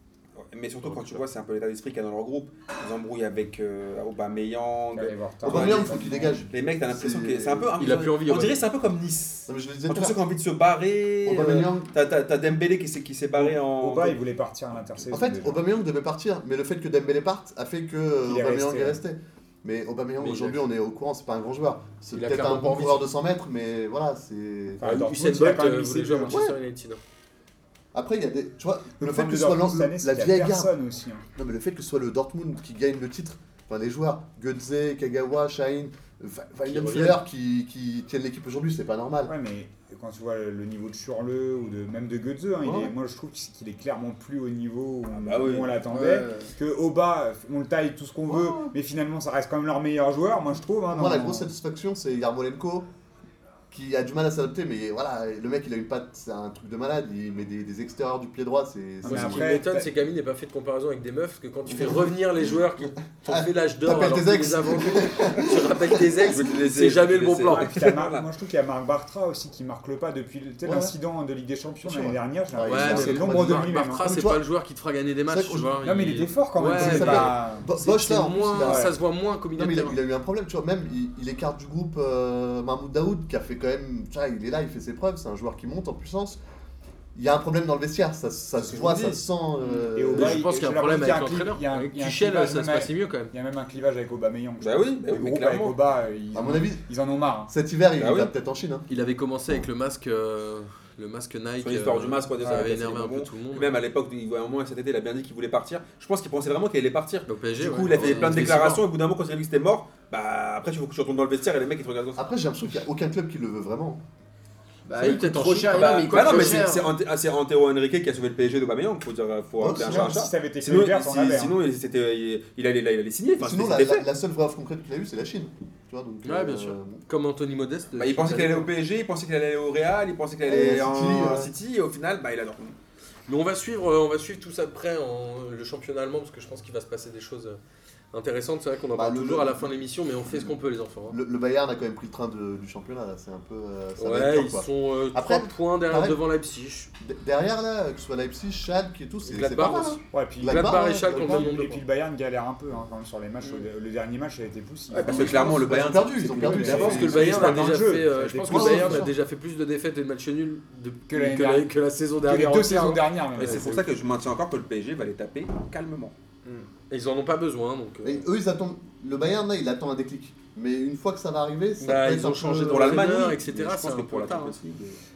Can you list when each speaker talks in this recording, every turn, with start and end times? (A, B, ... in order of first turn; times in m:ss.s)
0:00.4-0:14.2 A
0:00.8-0:01.2 B
0:05.0-0:06.5 C
0:05.4-0:07.7 D
0:07.8-0:08.6 B
0:09.5-0:10.2 D
0:11.3-0:11.9 D
0:13.4-0:15.6 C
0:15.1-0:24.9 D
0:18.2-0:19.0 C
0:20.2-0:20.6 B
0:22.1-0:23.1 B
0:24.8-0:26.4 C
0:24.8-0:27.0 B
0:26.3-0:26.6 D
0:27.9-0:30.7 D
0:29.0-0:31.2 C
0:31.4-0:39.3 D
0:36.6-0:37.2 B
0:39.3-0:51.5 C
0:42.6-0:42.9 D
0:45.2-0:45.7 A
0:45.9-0:46.5 E
0:48.3-0:48.7 D
0:50.9-0:52.9 D
0:53.7-0:59.6 D
0:59.0-0:59.9 C
0:59.0-1:07.7 B
1:01.7-1:02.6 D
1:03.2-1:06.3 D
1:06.1-1:08.3 A
1:07.4-1:14.0 C
1:10.6-1:11.0 D
1:11.8-1:14.4 D
1:12.7-1:20.0 B
1:15.3-1:15.8 D
1:15.8-1:17.7 C
1:16.7-1:18.9 D
1:18.6-1:18.9 C
1:19.6-1:26.4 D
1:27.2-1:30.4 D
1:28.6-1:29.2 A
1:29.6-1:33.3 B
1:30.0-1:37.5 C
1:34.6-1:35.8 A
1:36.3-1:36.8 D
1:37.5-1:38.9 D
1:38.0-1:38.3 A
1:38.9-1:43.8 B
1:41.6-1:52.3 A
1:47.3-1:48.8 B
1:48.0-1:48.3 E
1:52.2-1:54.0 D
1:54.8-1:56.9 E
1:55.0-1:56.7 B
1:55.7-2:04.1 A
1:59.6-2:00.3 D
1:59.8-2:01.6 C
2:03.4-2:07.0 D
2:06.2-2:08.7 B
2:08.0-2:12.8 A
2:10.4-2:11.5 D
2:13.3-2:17.6 B
2:18.1-2:21.2 B
2:19.0-2:20.5 D
2:21.1-2:26.2 D
2:24.0-2:26.9 B
2:27.0-2:31.5 D
2:29.2-2:31.8 B
2:30.1-2:39.1 C
2:35.0-2:35.5 E
2:35.0-2:37.7 D
2:35.0-2:37.7 A
2:36.6-2:43.7 B
2:38.5-2:39.1 D
2:41.1-2:43.9 C
2:43.4-2:46.1 A
2:46.9-2:48.3 B
2:48.0-2:53.0 D
2:51.8-2:54.6 B
2:52.7-2:55.0 A